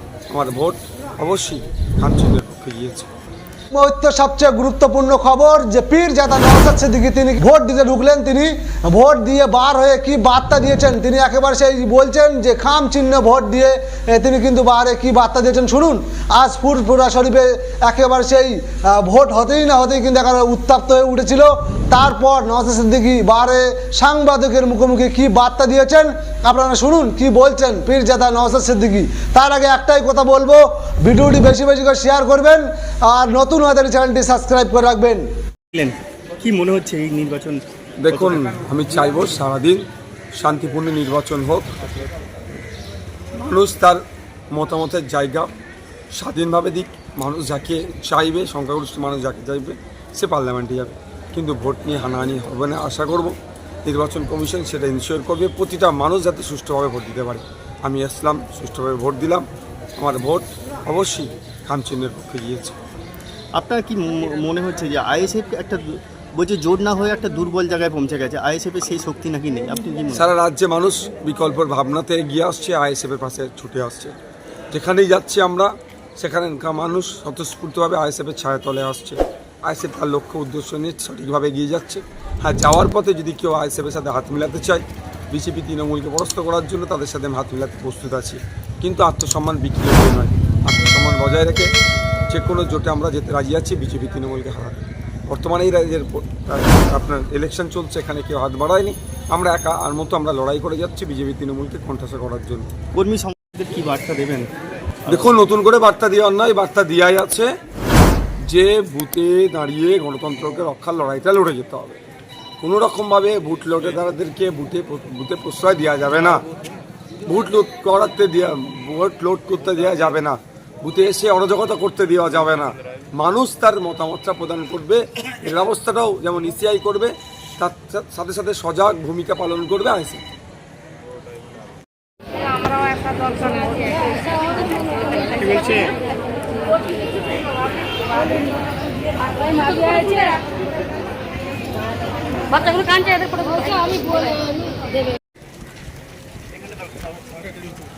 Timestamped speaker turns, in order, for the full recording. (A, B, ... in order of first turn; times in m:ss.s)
0:00.3-0:03.1 A
0:03.8-0:35.2 B
0:35.7-0:38.5 C
0:38.0-0:39.8 A
0:40.4-0:41.8 A
0:43.3-0:45.5 A
0:46.1-0:59.4 A
1:00.0-1:02.8 A
1:03.6-1:10.3 C
1:10.1-1:14.1 A
1:14.7-1:31.7 A
1:32.3-1:42.7 A
1:43.0-1:44.5 C
1:45.1-1:47.5 A
1:48.5-1:52.0 A
1:52.6-1:56.4 A
1:57.3-2:10.2 A
2:12.7-2:14.0 D
2:14.7-2:15.8 D
2:19.5-2:20.2 D
2:22.5-2:24.2 D